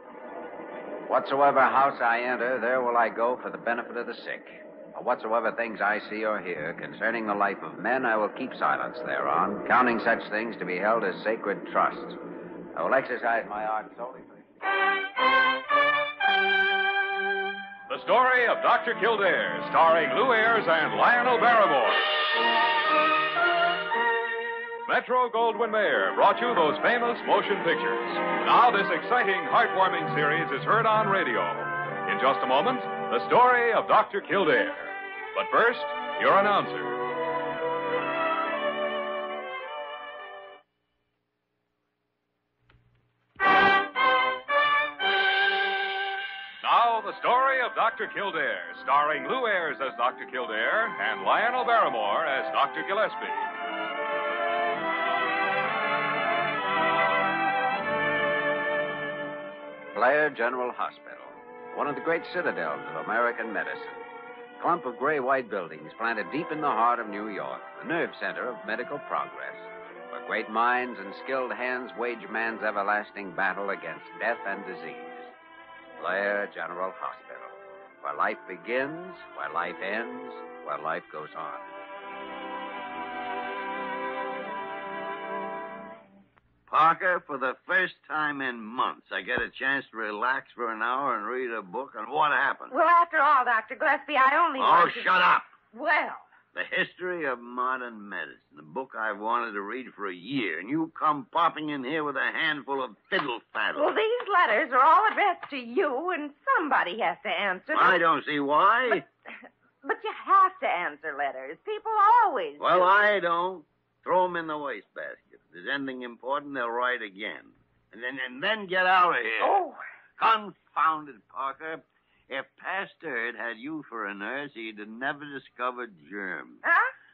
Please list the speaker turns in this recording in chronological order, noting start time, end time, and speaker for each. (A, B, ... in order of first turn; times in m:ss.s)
0:01.1-0:12.2 A
0:12.7-0:14.5 A
0:17.9-0:22.2 B
0:24.9-0:37.0 B
0:46.6-0:53.5 B
0:59.9-1:04.0 A
1:04.6-1:15.3 A
1:16.0-1:21.6 A
1:26.7-1:32.8 C
1:32.7-1:35.2 D
1:34.6-1:35.5 C
1:35.7-1:36.3 D
1:36.5-1:43.9 C
1:43.8-1:48.0 D
1:47.7-1:49.1 C
1:49.8-1:53.0 D
1:52.6-1:59.6 C
2:00.2-2:06.6 C
2:06.6-2:06.9 D